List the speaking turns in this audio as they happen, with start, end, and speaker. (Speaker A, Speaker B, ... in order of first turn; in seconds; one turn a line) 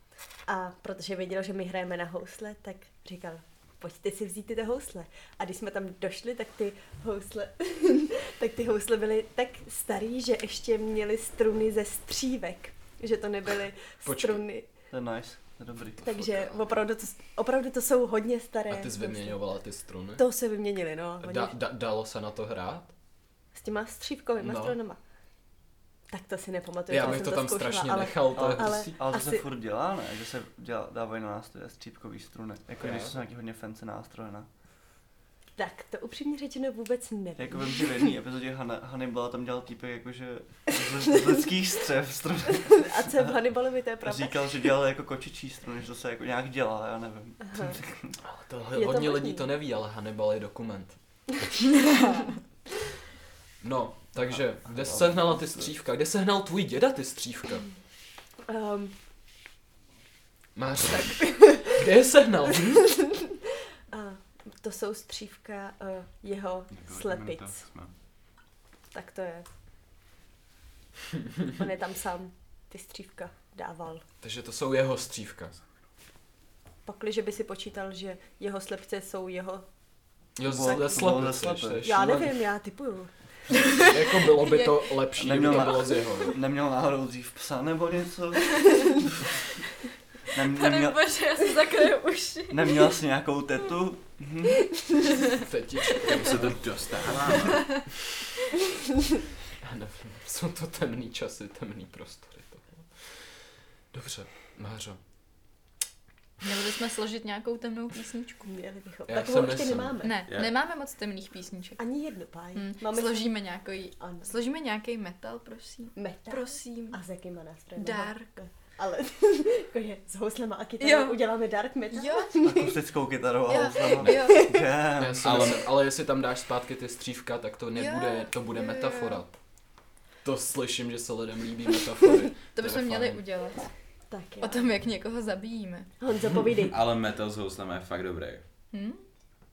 Speaker A: 0.5-14.6
Speaker B: 14.0-14.4
Speaker C: 14.9-16.0
Speaker B: 16.0-16.6
Speaker A: 16.0-19.4
Speaker B: 18.7-20.2
Speaker A: 20.2-21.5
Speaker B: 21.2-22.9
Speaker A: 23.5-25.0
Speaker B: 24.4-24.8
Speaker A: 26.1-29.4
Speaker B: 26.9-29.0
Speaker C: 28.4-34.5
Speaker A: 35.5-38.1
Speaker C: 37.4-43.4
Speaker A: 42.7-44.6
Speaker C: 44.0-48.1
Speaker A: 47.4-47.8
Speaker B: 48.2-51.0
Speaker A: 48.7-49.5
Speaker B: 53.6-57.6
Speaker C: 54.3-55.7
Speaker A: 58.5-58.9
Speaker B: 60.5-63.0
Speaker A: 61.3-61.6
Speaker A: 62.8-63.3
Speaker A: 63.9-67.6
Speaker D: 66.7-67.9
Speaker A: 68.9-69.5
Speaker A: 71.5-74.0
Speaker B: 74.2-75.5
Speaker A: 76.8-79.6
Speaker B: 80.3-82.4
Speaker C: 80.4-81.8
Speaker A: 81.8-83.1
Speaker B: 83.8-86.4
Speaker E: 84.4-84.9
Speaker C: 85.2-89.1
Speaker C: 90.3-91.0
Speaker E: 90.4-92.9
Speaker C: 92.5-94.6
Speaker B: 95.3-97.5
Speaker D: 96.0-97.8
Speaker E: 97.5-97.8
Speaker B: 99.6-103.2
Speaker B: 103.9-105.0
Speaker E: 106.4-108.5
Speaker A: 108.4-110.2
Speaker B: 109.1-110.0
Speaker E: 110.0-111.8
Speaker A: 111.8-113.3
Speaker E: 112.5-117.0
Speaker A: 114.0-114.3
Speaker A: 115.9-122.7
Speaker E: 117.8-118.3
Speaker E: 120.8-121.2
Speaker E: 121.9-122.3
Speaker C: 122.4-125.5
Speaker E: 123.5-124.4
Speaker A: 124.1-124.8
Speaker B: 125.0-129.3
Speaker D: 125.2-125.7
Speaker E: 127.7-129.2
Speaker B: 130.2-133.2
Speaker E: 132.5-133.7
Speaker A: 134.1-134.7
Speaker E: 134.4-135.9
Speaker A: 136.0-136.8
Speaker D: 136.7-138.4
Speaker E: 138.7-139.0